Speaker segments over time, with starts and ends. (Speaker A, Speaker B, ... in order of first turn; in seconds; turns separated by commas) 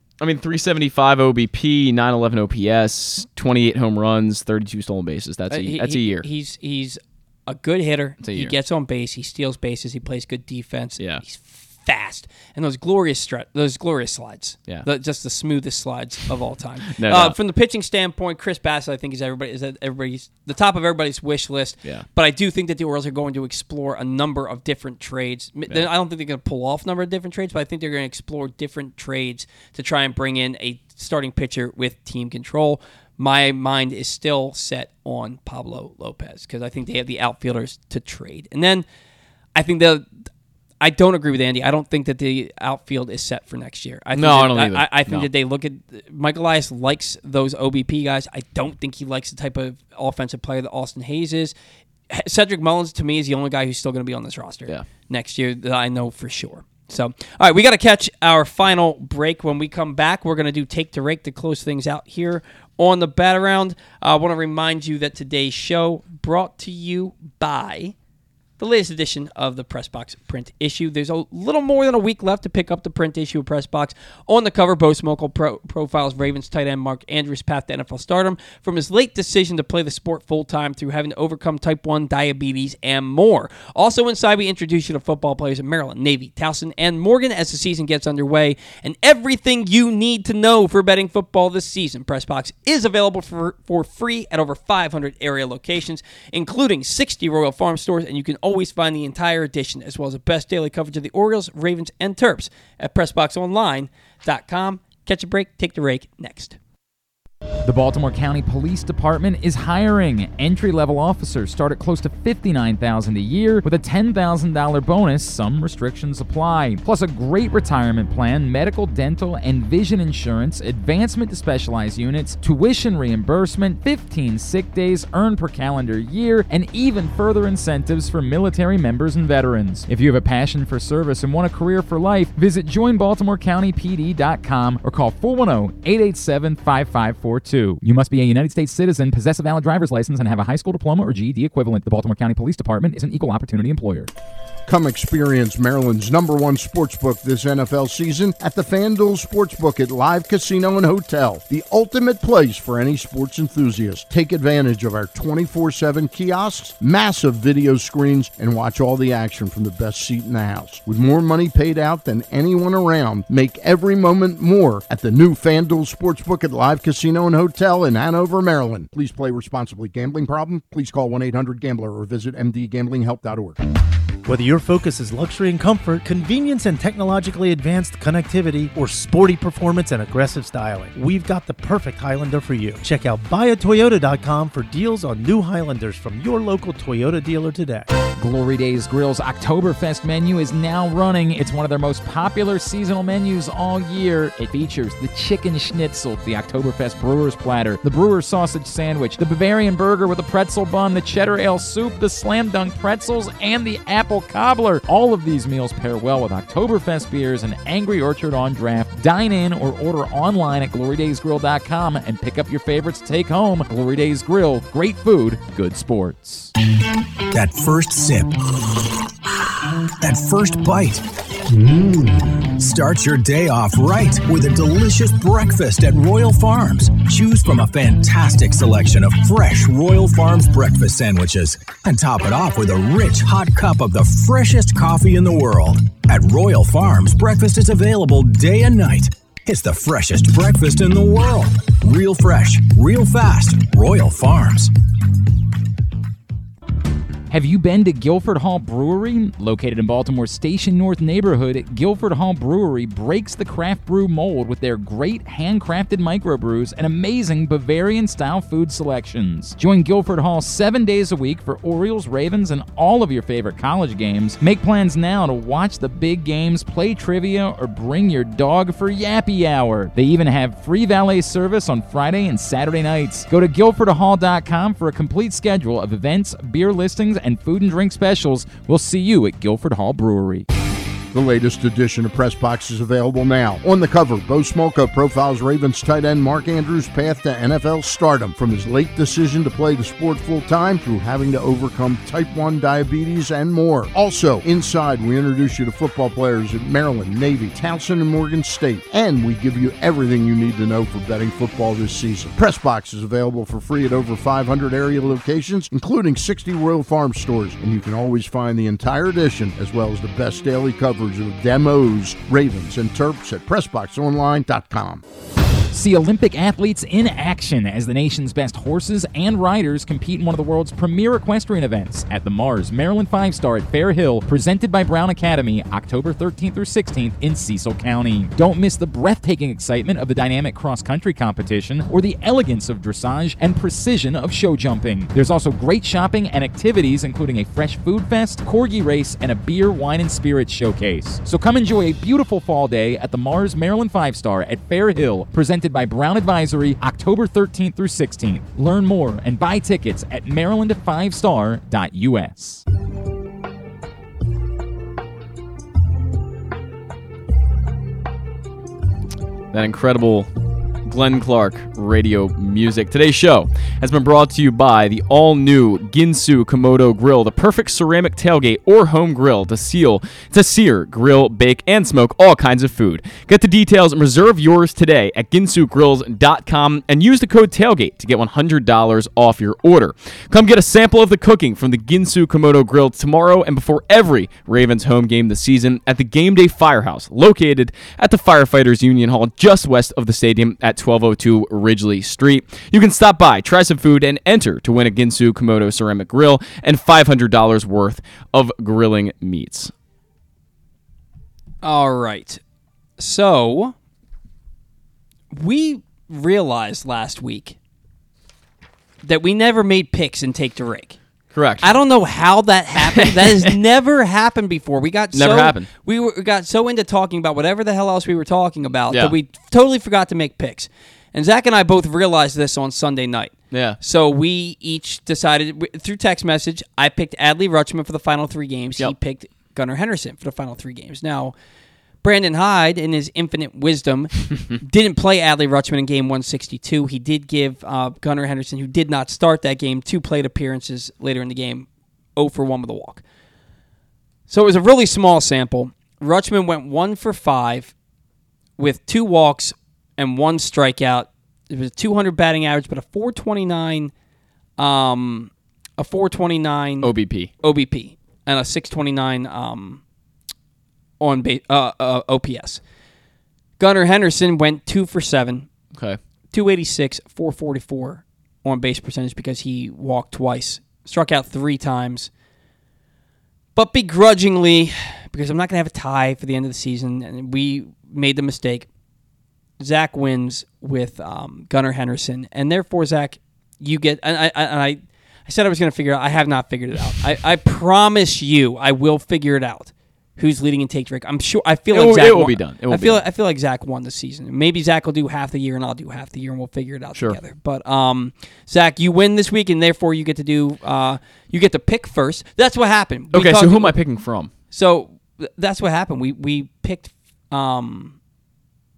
Speaker A: 0.2-6.2, Speaker B: 5.5-38.8, Speaker A: 8.2-8.5, Speaker A: 11.0-11.2, Speaker A: 16.9-17.4, Speaker B: 39.5-40.1, Speaker B: 40.8-51.5, Speaker A: 44.1-45.3, Speaker B: 52.1-67.9, Speaker B: 68.6-106.6, Speaker C: 107.6-144.1, Speaker D: 144.7-173.6, Speaker E: 174.2-187.9, Speaker C: 188.2-216.5, Speaker F: 217.3-218.4, Speaker F: 220.0-221.1, Speaker F: 221.9-244.7, Speaker C: 247.3-280.4, Speaker D: 281.1-315.0, Speaker C: 315.7-352.6, Speaker A: 359.5-360.3, Speaker A: 360.8-399.7, Speaker B: 401.6-402.4, Speaker B: 403.0-403.7, Speaker B: 405.3-407.6, Speaker B: 409.0-411.0, Speaker A: 411.3-411.7, Speaker B: 411.6-431.3, Speaker A: 412.8-413.5, Speaker A: 415.1-415.7, Speaker A: 423.5-423.8, Speaker B: 432.0-443.0, Speaker B: 444.3-447.7, Speaker B: 448.6-453.9, Speaker B: 454.6-459.8, Speaker A: 456.8-457.3, Speaker B: 461.0-462.6, Speaker B: 463.6-465.5, Speaker A: 465.7-466.0, Speaker B: 466.3-472.1, Speaker B: 473.5-478.7, Speaker B: 479.6-503.9, Speaker A: 491.7-493.0, Speaker A: 496.9-497.2, Speaker A: 503.1-504.3, Speaker B: 504.5-507.9